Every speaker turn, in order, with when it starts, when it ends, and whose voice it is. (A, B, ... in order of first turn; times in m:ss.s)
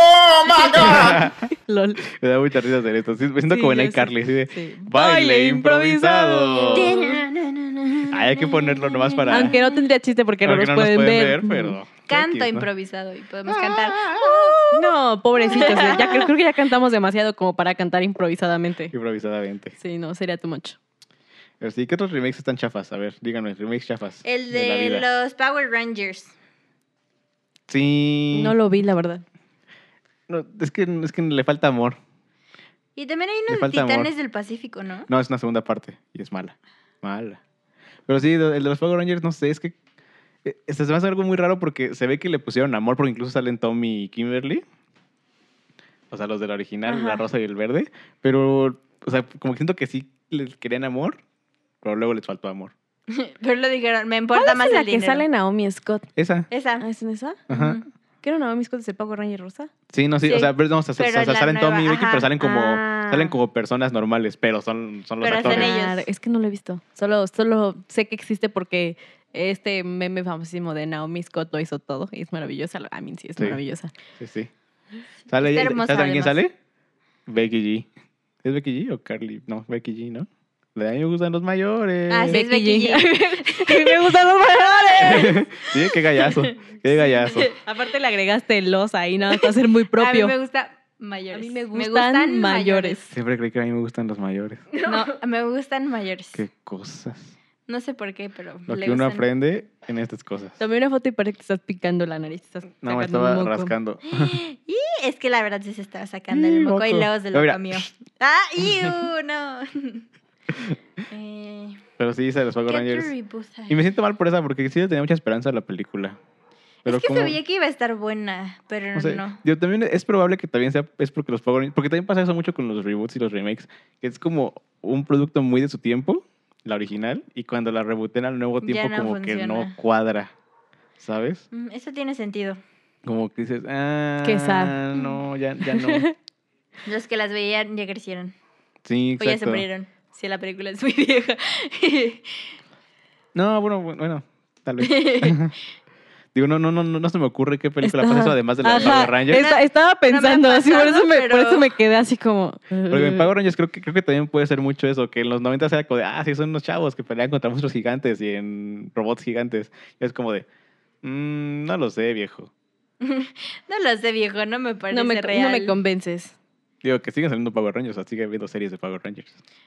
0:00.4-0:01.2 A
0:00.5-0:01.5 B
0:00.8-0:02.0 C
0:02.1-0:07.0 B
0:03.4-0:07.2 C
0:06.7-0:09.7 A
0:08.1-0:09.6 B
0:09.3-0:11.8 C
0:10.4-0:12.7 B
0:12.1-0:14.9 A
0:13.5-0:14.6 B
0:14.7-0:18.9 C
0:15.4-0:16.3 A
0:18.9-0:19.7 B
0:19.8-0:20.8 C
0:21.6-0:25.0 B
0:24.2-0:26.3 A
0:27.7-0:28.6 B
0:28.3-0:29.2 C
0:30.3-0:32.0 B
0:33.0-0:35.1 A
0:33.5-0:34.1 B
0:35.1-0:37.4 B
0:38.1-0:39.8 B
0:40.4-0:44.6 B
0:46.1-0:51.2 B
0:46.8-0:47.2 A
0:51.8-0:52.7 B
0:53.1-0:55.2 A
0:54.3-0:56.1 C
0:56.2-0:56.5 B
0:56.5-0:56.8 A
0:56.8-0:57.4 C
0:57.5-0:57.8 B
0:57.5-0:57.8 A
0:58.2-0:59.7 C
0:59.9-1:05.7 B
1:00.2-1:02.3 A
1:02.4-1:03.3 C
1:05.2-1:06.1 A
1:05.3-1:13.9 C
1:14.2-1:14.5 B
1:15.3-1:16.5 B
1:15.3-1:16.4 A
1:17.3-1:17.9 B
1:18.4-1:22.4 B
1:22.1-1:27.6 A
1:22.3-1:25.4 C
1:25.0-1:27.5 B
1:27.6-1:30.3 C
1:29.3-1:33.1 A
1:31.3-1:33.1 C
1:33.1-1:34.7 B
1:34.8-1:36.4 A
1:36.3-1:37.3 B
1:37.7-1:39.3 A
1:38.7-1:40.6 B
1:40.6-1:43.7 C
1:42.8-1:44.4 B
1:44.1-1:50.0 A
1:46.3-1:47.9 B
1:48.6-1:48.9 B
1:51.1-1:51.8 A
1:52.0-1:53.1 B
1:52.6-1:53.8 A
1:53.7-1:56.2 B
1:56.8-1:57.4 B
1:56.8-1:59.4 A
1:58.9-2:10.3 B
2:08.6-2:09.7 A
2:11.0-2:11.4 B
2:11.5-2:12.6 A
2:13.0-2:16.1 B
2:14.2-2:14.8 C
2:15.7-2:16.1 C
2:16.8-2:18.3 A
2:18.8-2:19.6 B
2:19.2-2:22.5 A
2:23.3-2:25.5 B
2:24.8-2:25.5 A
2:26.3-2:29.5 B
2:27.8-2:33.3 C
2:28.7-2:31.8 A
2:32.9-2:40.4 B
2:41.0-2:42.5 B
2:43.0-2:45.8 A
2:44.9-2:46.3 C
2:46.8-2:49.4 B